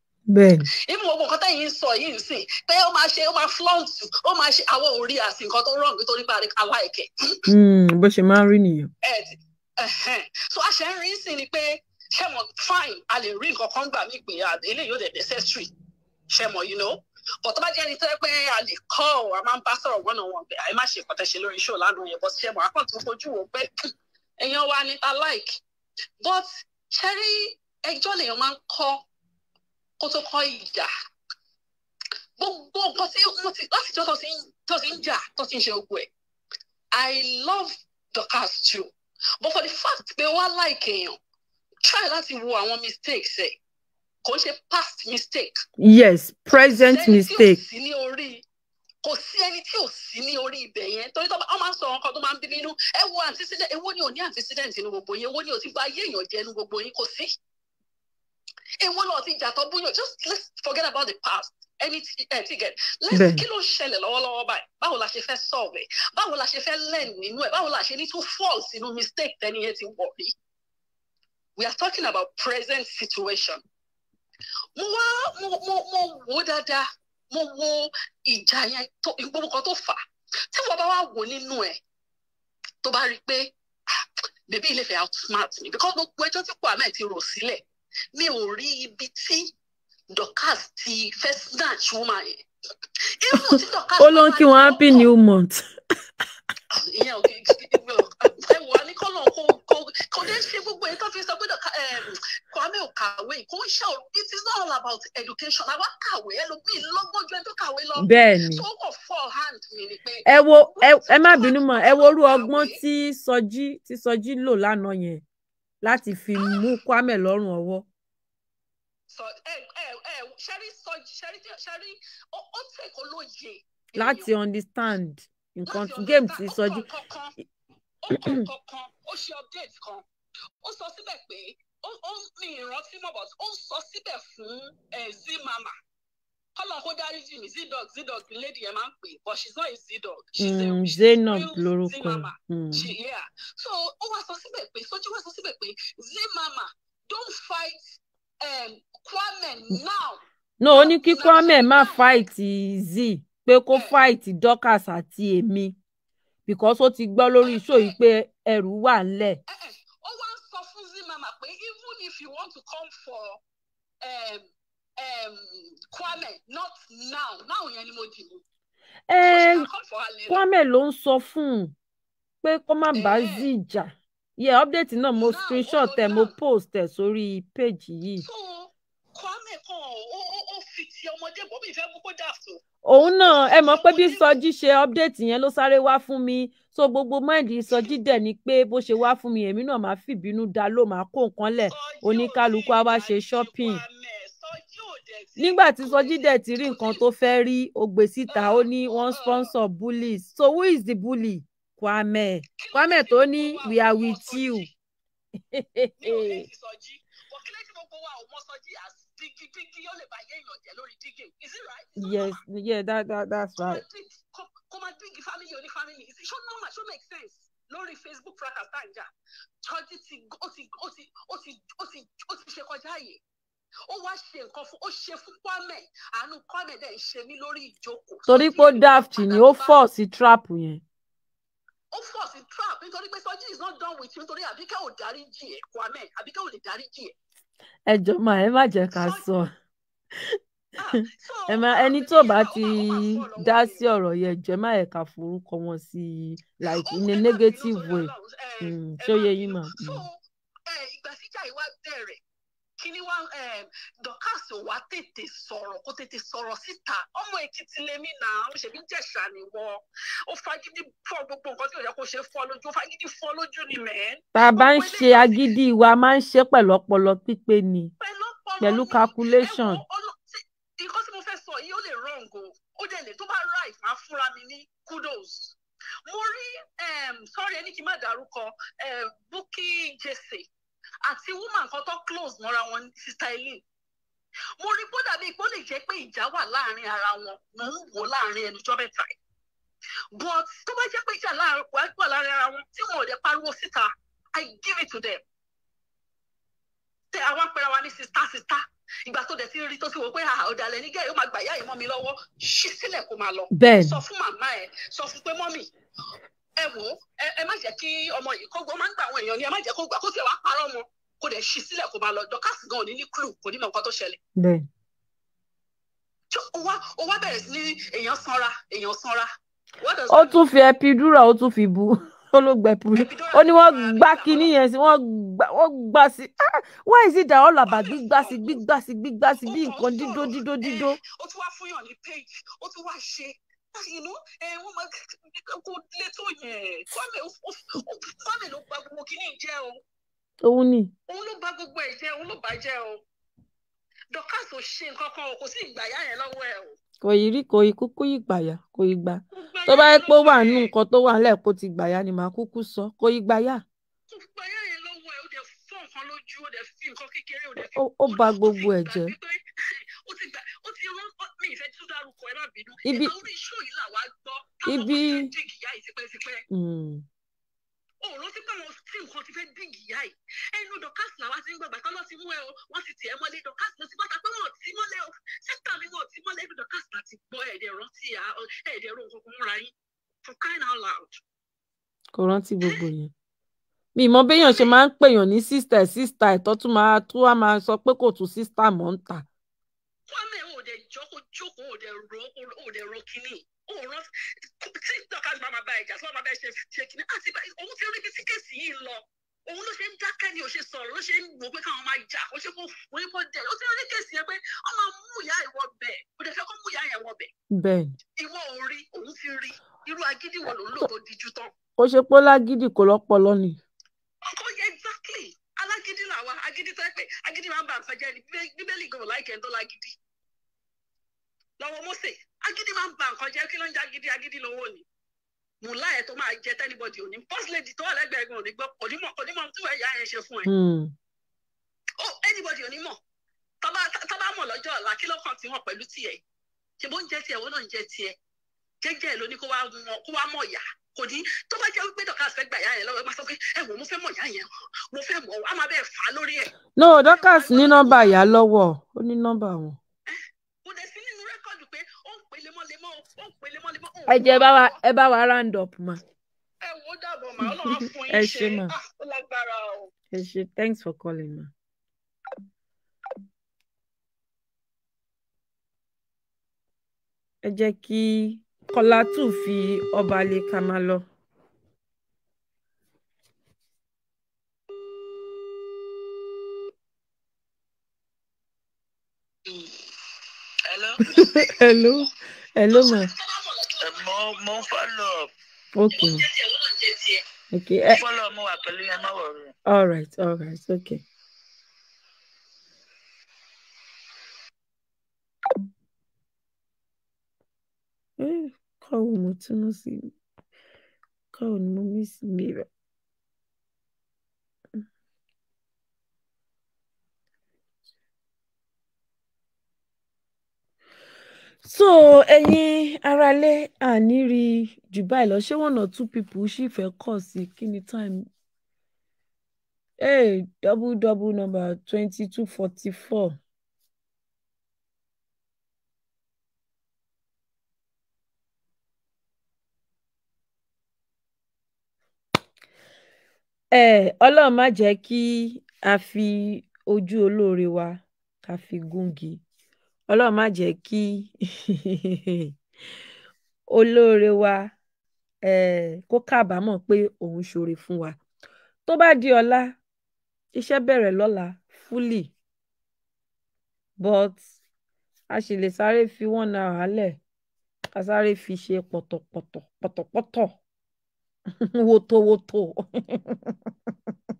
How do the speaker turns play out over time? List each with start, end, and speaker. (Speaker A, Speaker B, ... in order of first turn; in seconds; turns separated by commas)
Speaker A: 0.3-0.7, Speaker B: 0.7-7.5, Speaker A: 7.5-8.9, Speaker B: 9.0-15.7, Speaker B: 16.3-23.7, Speaker B: 24.4-25.6, Speaker B: 26.2-29.0, Speaker B: 30.0-30.9, Speaker B: 32.4-36.1, Speaker B: 36.9-41.2, Speaker B: 41.8-43.6, Speaker B: 44.2-45.6, Speaker A: 45.8-47.6, Speaker B: 46.5-48.4, Speaker B: 49.0-57.3, Speaker B: 58.8-70.3, Speaker A: 63.1-63.4, Speaker B: 71.5-73.6, Speaker B: 74.8-80.0, Speaker B: 80.5-81.8, Speaker B: 82.8-83.5, Speaker B: 84.5-89.5, Speaker B: 90.1-92.4, Speaker B: 93.2-95.1, Speaker A: 94.0-95.6, Speaker B: 96.7-112.8, Speaker A: 108.0-108.6, Speaker A: 110.2-115.2, Speaker A: 115.8-117.8, Speaker B: 116.3-116.7, Speaker B: 119.1-124.3, Speaker A: 124.0-126.8, Speaker B: 125.7-127.3, Speaker B: 128.0-130.0, Speaker A: 128.2-128.4, Speaker B: 130.6-135.7, Speaker B: 136.6-152.2, Speaker A: 140.4-142.9, Speaker A: 150.6-155.8, Speaker B: 153.7-154.0, Speaker A: 156.5-159.4, Speaker B: 157.4-158.0, Speaker B: 159.5-163.4, Speaker B: 164.0-164.5, Speaker B: 165.0-168.4, Speaker A: 169.1-169.7, Speaker B: 169.2-170.4, Speaker A: 170.3-171.7, Speaker A: 172.4-178.2, Speaker B: 172.9-173.5, Speaker B: 175.2-176.3, Speaker B: 178.2-182.6, Speaker A: 182.8-193.8, Speaker B: 183.2-184.3, Speaker B: 191.7-197.0, Speaker A: 195.4-204.7, Speaker B: 198.3-199.5, Speaker B: 202.6-204.7, Speaker A: 205.5-206.5, Speaker B: 206.0-212.4, Speaker A: 212.0-213.8, Speaker B: 213.6-219.1, Speaker B: 219.6-223.2, Speaker B: 223.9-229.8, Speaker A: 228.3-230.8, Speaker B: 231.9-237.1, Speaker A: 237.9-239.5, Speaker B: 239.0-239.2, Speaker B: 240.8-243.9, Speaker A: 241.0-250.1, Speaker B: 246.7-250.2, Speaker B: 250.7-252.2, Speaker B: 252.8-265.4, Speaker A: 264.3-267.9, Speaker B: 268.0-280.5, Speaker A: 268.6-269.8, Speaker B: 281.0-283.6, Speaker B: 284.6-289.2, Speaker B: 290.1-295.2, Speaker B: 297.1-305.7, Speaker A: 303.5-304.0, Speaker B: 306.6-314.2, Speaker A: 314.4-314.7, Speaker B: 316.3-319.3, Speaker B: 319.8-320.4, Speaker A: 320.1-331.0, Speaker B: 322.9-324.5, Speaker B: 327.7-328.6, Speaker B: 329.4-339.8, Speaker A: 340.4-340.9, Speaker B: 341.1-343.0, Speaker B: 344.1-346.8, Speaker A: 347.0-353.6, Speaker B: 349.3-350.7, Speaker B: 354.1-359.4, Speaker A: 357.6-359.1, Speaker B: 360.0-366.4, Speaker A: 362.8-363.1, Speaker A: 364.6-365.3, Speaker A: 366.5-367.0, Speaker B: 368.0-379.7, Speaker B: 380.2-381.2, Speaker A: 382.1-383.1, Speaker A: 383.9-389.2, Speaker B: 384.3-384.7, Speaker B: 390.1-394.1, Speaker B: 394.6-407.3, Speaker A: 407.5-408.0, Speaker B: 408.2-411.5, Speaker A: 411.8-413.6, Speaker B: 414.2-419.9, Speaker B: 421.6-424.8, Speaker B: 425.6-430.5, Speaker A: 430.4-430.9, Speaker B: 432.0-433.0, Speaker B: 433.6-436.2, Speaker B: 436.8-438.1, Speaker B: 438.8-448.1, Speaker A: 446.8-449.8, Speaker B: 450.1-454.8, Speaker A: 454.1-456.0, Speaker B: 456.6-459.9, Speaker A: 457.5-458.7, Speaker A: 460.1-461.5, Speaker A: 467.4-471.0, Speaker C: 480.7-481.0, Speaker A: 481.1-483.1, Speaker B: 482.7-484.6, Speaker C: 483.8-485.3, Speaker A: 485.7-486.2, Speaker B: 485.9-487.2, Speaker A: 487.5-488.0, Speaker C: 487.9-489.5, Speaker A: 489.6-491.0, Speaker A: 498.2-500.1, Speaker A: 501.3-502.7, Speaker A: 511.6-518.3, Speaker A: 520.0-523.4, Speaker A: 533.7-539.4, Speaker A: 540.1-542.5, Speaker A: 543.7-544.7, Speaker A: 545.4-548.2, Speaker A: 548.9-549.8, Speaker A: 550.5-552.3, Speaker A: 554.0-554.4, Speaker A: 555.3-557.2, Speaker A: 557.9-560.5, Speaker A: 561.6-563.5